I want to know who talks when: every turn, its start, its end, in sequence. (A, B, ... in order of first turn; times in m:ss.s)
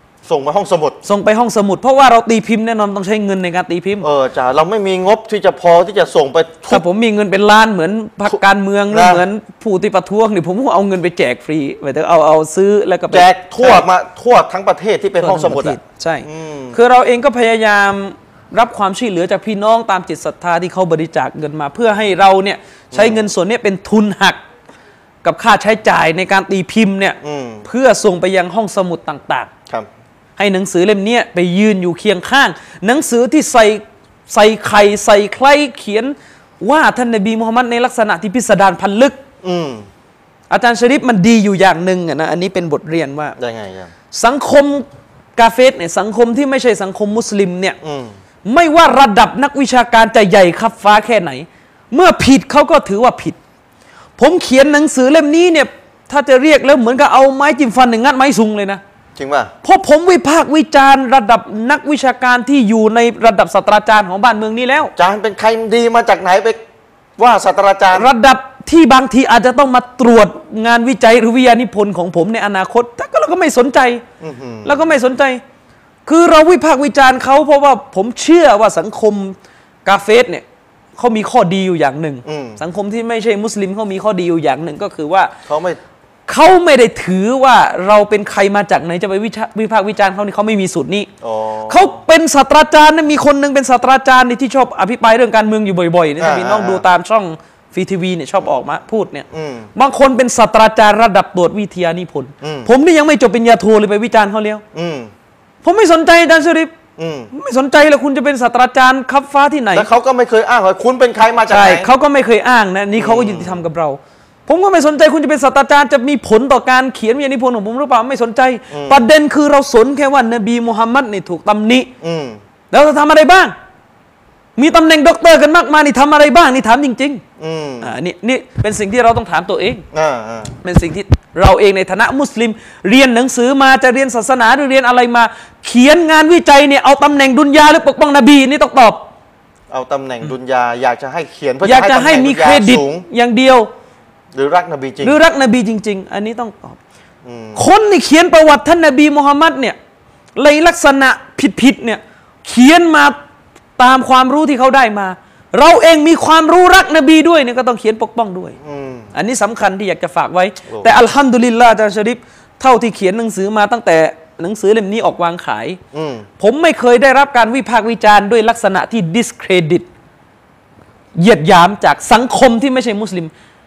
0:00.2-0:01.0 A
0:01.0-0:04.1 B
0:04.0-0:06.8 A
0:06.7-0:13.9 B
0:08.9-0:09.2 A
0:13.1-0:16.8 A
0:15.2-0:24.4 B
0:22.9-0:23.3 A
0:25.2-0:29.5 B
0:27.2-0:27.7 A
0:30.4-0:39.2 B
0:39.4-0:39.9 A
0:40.5-0:43.4 B
0:43.4-0:43.9 A
0:44.1-0:44.9 B
0:45.4-0:47.8 B
0:47.8-0:48.2 A
0:48.4-0:53.4 B
0:54.2-0:58.8 B
0:59.2-0:59.5 A
0:59.6-1:04.9 B
1:05.0-1:06.6 A
1:07.2-1:08.1 A
1:07.9-1:14.0 B
1:14.2-1:14.9 A
1:14.6-1:15.4 B
1:16.1-1:20.4 B
1:21.0-1:25.3 B
1:22.2-1:22.6 A
1:25.5-1:25.8 A
1:26.3-1:31.1 B
1:31.2-1:32.0 A
1:31.7-1:44.6 B
1:36.2-1:36.8 A
1:39.3-1:39.7 A
1:42.4-1:42.7 A
1:44.7-1:45.1 A
1:45.6-1:46.7 B
1:47.0-1:47.3 A
1:47.3-1:49.9 B
1:49.7-1:51.9 A
1:51.5-2:01.9 B
1:53.0-1:53.6 A
1:58.7-1:59.0 A
2:02.0-2:02.4 A
2:02.7-2:03.6 B
2:04.6-2:07.2 B
2:07.4-2:07.9 A
2:07.8-2:09.8 B
2:09.9-2:10.6 A
2:10.6-2:19.1 B
2:19.7-2:23.1 A
2:21.6-2:23.7 B
2:24.3-2:25.2 A
2:25.0-2:26.8 B
2:27.2-2:27.6 A
2:27.6-2:29.8 B
2:30.4-2:33.2 B
2:33.8-2:38.6 B
2:38.6-2:39.1 A
2:39.1-2:45.8 B
2:40.7-2:41.0 A
2:45.9-2:46.3 A
2:46.4-2:49.9 B
2:51.2-2:53.3 B